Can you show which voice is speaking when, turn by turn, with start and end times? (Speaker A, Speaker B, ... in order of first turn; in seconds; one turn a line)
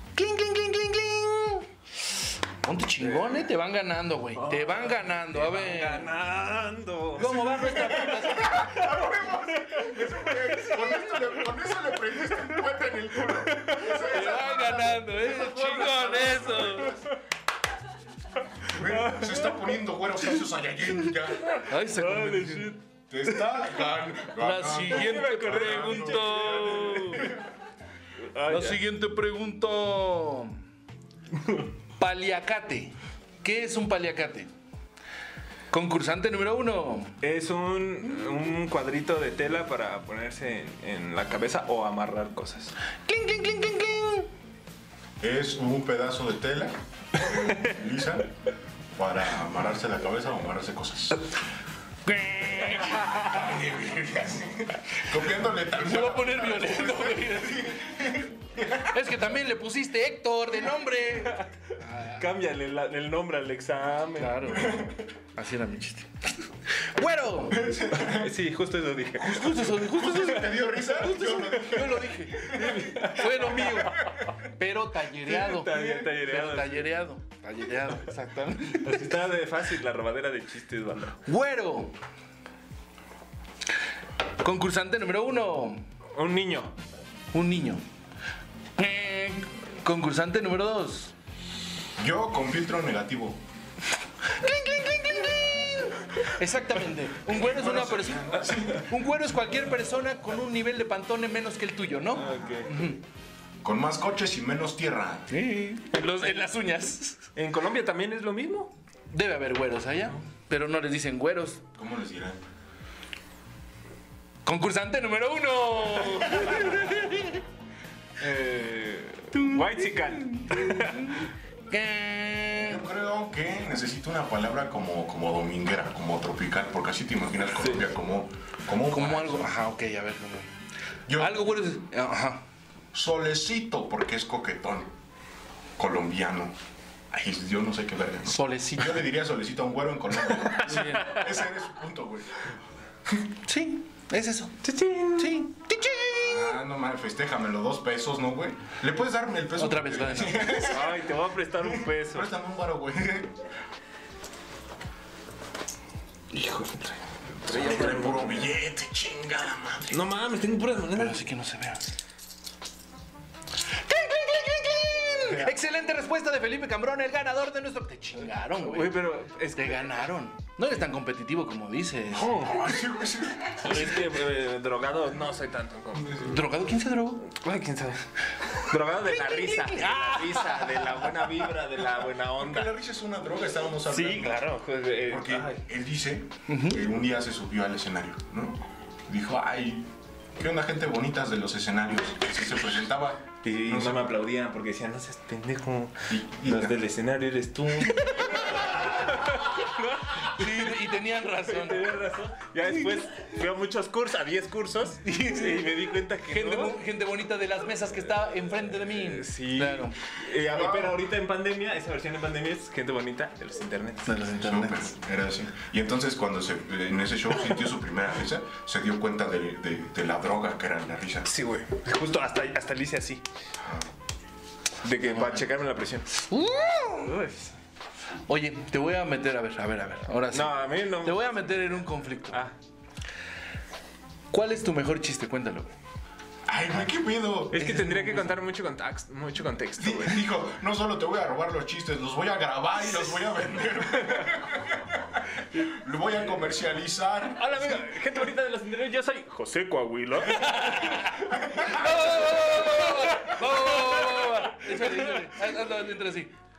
Speaker A: 0.1-6.1
Speaker B: 3.0-3.4
Speaker B: 4.3-8.5
Speaker A: 7.2-8.9
Speaker C: 7.2-17.0
Speaker B: 9.7-10.0
Speaker B: 13.4-14.0
Speaker A: 13.9-17.0
Speaker B: 15.6-16.3
Speaker C: 18.6-21.6
Speaker B: 18.8-19.5
Speaker A: 21.6-22.8
Speaker B: 21.8-22.8
Speaker C: 23.1-27.4
Speaker A: 24.4-27.3
Speaker B: 24.9-27.3
Speaker B: 28.2-28.8
Speaker A: 28.5-30.6
Speaker A: 32.0-34.5
Speaker A: 35.7-37.2
Speaker B: 37.2-42.7
Speaker A: 43.1-44.3
Speaker C: 45.2-48.3
Speaker B: 47.2-47.7
Speaker C: 49.0-51.3
Speaker A: 52.0-53.2
Speaker C: 53.0-59.0
Speaker A: 55.8-57.9
Speaker A: 58.8-62.2
Speaker B: 61.2-64.6
Speaker A: 64.2-67.7
Speaker C: 64.5-65.0
Speaker C: 67.5-68.3
Speaker B: 67.9-69.6
Speaker A: 69.2-79.1
Speaker C: 69.5-74.3
Speaker B: 72.4-74.1
Speaker B: 75.2-76.9
Speaker B: 78.8-81.2
Speaker A: 81.2-81.9
Speaker A: 84.4-85.8
Speaker B: 86.1-86.7
Speaker A: 87.3-87.8
Speaker A: 88.8-91.1
Speaker C: 92.0-93.4
Speaker A: 94.2-103.0
Speaker C: 97.2-98.9
Speaker B: 102.1-102.7
Speaker C: 103.6-105.3
Speaker A: 105.3-107.3
Speaker B: 107.3-108.7
Speaker A: 109.1-111.6
Speaker C: 111.8-112.4
Speaker A: 114.4-117.4
Speaker B: 118.2-121.2
Speaker A: 119.3-122.9
Speaker C: 122.6-129.5
Speaker A: 128.9-130.5
Speaker C: 131.1-131.5
Speaker A: 131.1-132.4
Speaker C: 132.9-134.9
Speaker C: 135.8-136.5
Speaker C: 137.1-142.6
Speaker A: 138.3-139.0
Speaker B: 140.5-141.2
Speaker A: 140.5-141.2
Speaker A: 143.4-144.6
Speaker B: 144.6-145.4
Speaker A: 145.2-146.6
Speaker C: 146.2-151.1
Speaker A: 149.5-150.6
Speaker B: 150.5-152.3
Speaker C: 151.6-153.3
Speaker B: 156.3-158.4
Speaker C: 157.4-160.0
Speaker A: 157.5-158.2
Speaker B: 159.9-161.2
Speaker A: 160.9-161.8
Speaker A: 163.7-172.6
Speaker C: 165.2-165.5
Speaker B: 168.6-170.1
Speaker C: 172.1-174.0
Speaker B: 172.2-172.7
Speaker B: 173.5-176.4
Speaker A: 176.1-177.2
Speaker B: 177.2-182.7
Speaker A: 179.0-181.3
Speaker C: 182.4-184.5
Speaker B: 183.9-185.6
Speaker C: 185.1-194.1
Speaker A: 186.5-186.8
Speaker B: 193.4-200.7
Speaker C: 196.1-196.8
Speaker A: 200.2-202.0
Speaker B: 201.4-206.8
Speaker A: 202.6-202.9
Speaker A: 205.0-210.0
Speaker B: 208.9-214.3
Speaker C: 210.5-210.9
Speaker A: 214.1-214.9
Speaker C: 214.3-221.3
Speaker B: 221.2-223.2
Speaker B: 224.8-226.2
Speaker A: 226.3-227.2
Speaker B: 227.0-227.4
Speaker A: 228.3-232.4
Speaker B: 230.3-231.6
Speaker B: 232.3-232.5
Speaker A: 234.3-235.7
Speaker C: 236.4-237.7
Speaker B: 237.5-240.2
Speaker A: 237.5-238.4
Speaker C: 239.8-247.6
Speaker B: 247.3-251.2
Speaker A: 250.3-256.3
Speaker C: 251.3-252.4
Speaker B: 251.7-255.3